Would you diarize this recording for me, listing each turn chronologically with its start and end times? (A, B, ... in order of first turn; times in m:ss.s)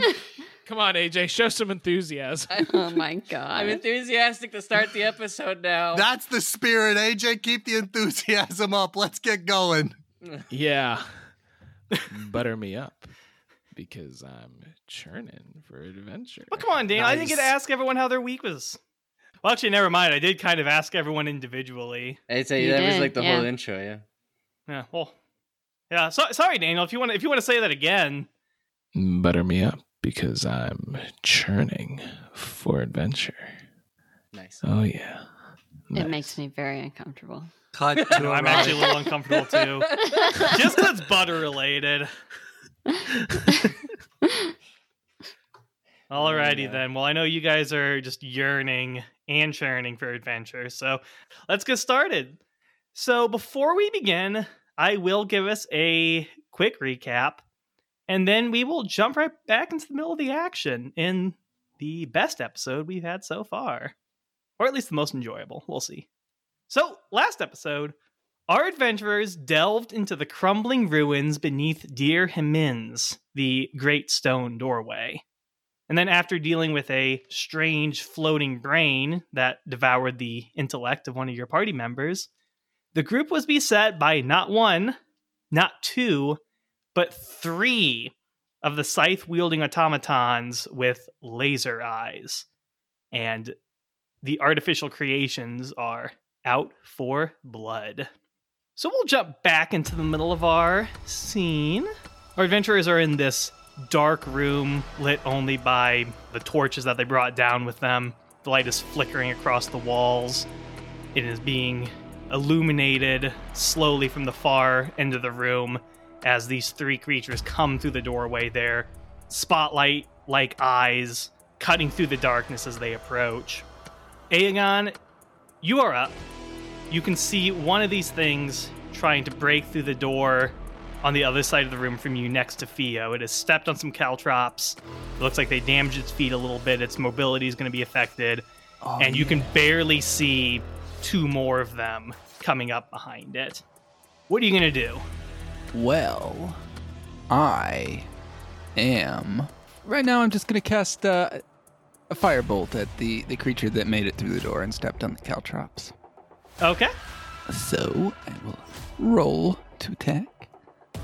0:00.7-0:02.6 A
0:02.5-0:03.0 B
0:02.7-0:03.8 C
0:03.5-0:06.1 B
0:05.9-0:10.0 D
0:10.5-0:11.1 A
0:11.9-0:12.2 E
0:12.1-0:13.1 A
0:13.7-0:17.5 A
0:16.5-0:18.8 E
0:19.4-0:22.2 E
0:22.3-0:24.0 B
0:22.6-0:23.5 C
0:24.7-0:25.1 E
0:25.9-0:28.3 E
0:28.9-0:33.5 A
0:34.3-0:34.6 B
0:34.6-0:35.3 A
0:35.9-0:36.4 A
0:35.9-0:37.5 C
0:37.7-0:39.0 D
0:38.0-0:40.6 B
0:38.1-0:42.1 E
0:40.2-0:40.5 C
0:42.9-0:43.6 C
0:46.1-0:52.4 E
0:46.2-0:46.8 B
0:52.9-0:57.4 E
0:58.1-1:03.9 E
1:04.6-1:06.1 E
1:06.7-1:07.9 E
1:08.5-1:15.2 E
1:15.9-1:22.3 E
1:22.9-1:25.0 E
1:25.5-1:26.4 E
1:26.9-1:32.5 E
1:33.1-1:33.5 E
1:34.2-1:38.1 E
1:38.8-1:50.5 E
1:51.1-2:03.6 E
2:04.3-2:04.9 E
2:05.6-2:06.2 E
2:06.9-2:18.4 E
2:18.8-2:19.5 F
2:19.0-2:23.6 E
2:24.3-2:25.0 E
2:25.7-2:26.6 F
2:27.3-2:28.1 F
2:28.8-2:31.4 F
2:32.1-2:35.9 F
2:36.6-2:36.9 E
2:37.5-2:40.5 F